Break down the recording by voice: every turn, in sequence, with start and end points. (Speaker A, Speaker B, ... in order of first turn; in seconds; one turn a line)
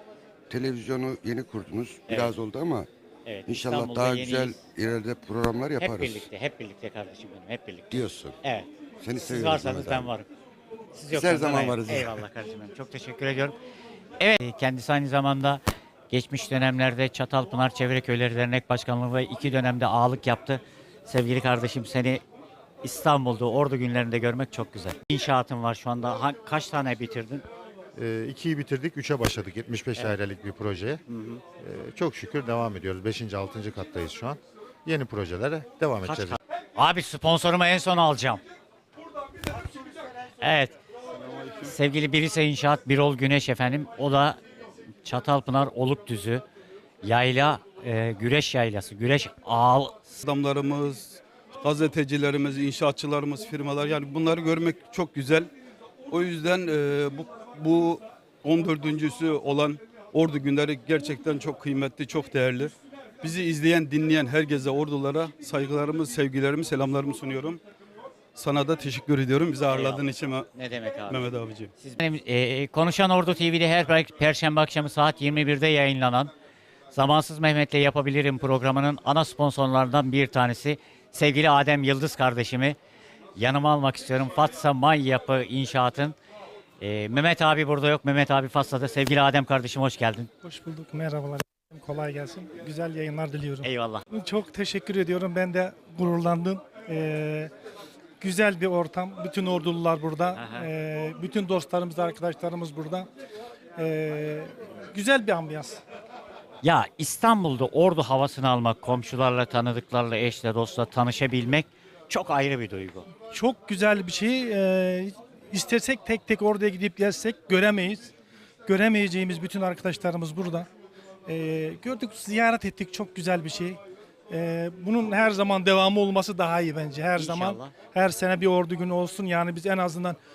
Speaker A: 0.5-2.9
Speaker B: 2.1-2.3
Speaker B: 3.2-4.6
Speaker A: 3.5-6.3
Speaker B: 5.8-8.7
Speaker A: 7.9-8.4
Speaker A: 9.0-10.1
Speaker B: 9.2-10.3
Speaker B: 10.9-13.5
Speaker A: 11.1-12.2
Speaker B: 14.2-22.2
Speaker B: 22.8-27.4
Speaker C: 27.9-31.0
Speaker B: 31.1-31.4
Speaker C: 31.6-36.4
Speaker B: 36.0-38.4
Speaker B: 40.4-40.8
Speaker D: 41.1-41.7
Speaker B: 41.6-44.4
Speaker B: 45.0-46.4
Speaker B: 47.0-50.0
Speaker D: 50.1-55.5
Speaker D: 56.1-67.6
Speaker D: 68.3-70.5
Speaker B: 69.7-76.3
Speaker D: 71.1-71.7
Speaker B: 76.9-82.8
Speaker B: 83.4-86.2
Speaker B: 86.8-90.3
Speaker E: 90.4-97.5
Speaker B: 93.6-94.0
Speaker E: 98.2-103.1
Speaker B: 100.3-100.7
Speaker E: 103.8-105.8
Speaker B: 106.6-113.1
Speaker E: 113.3-118.1
Speaker E: 118.7-120.7
Speaker E: 121.3-123.8
Speaker E: 124.3-130.2
Speaker B: 127.2-127.7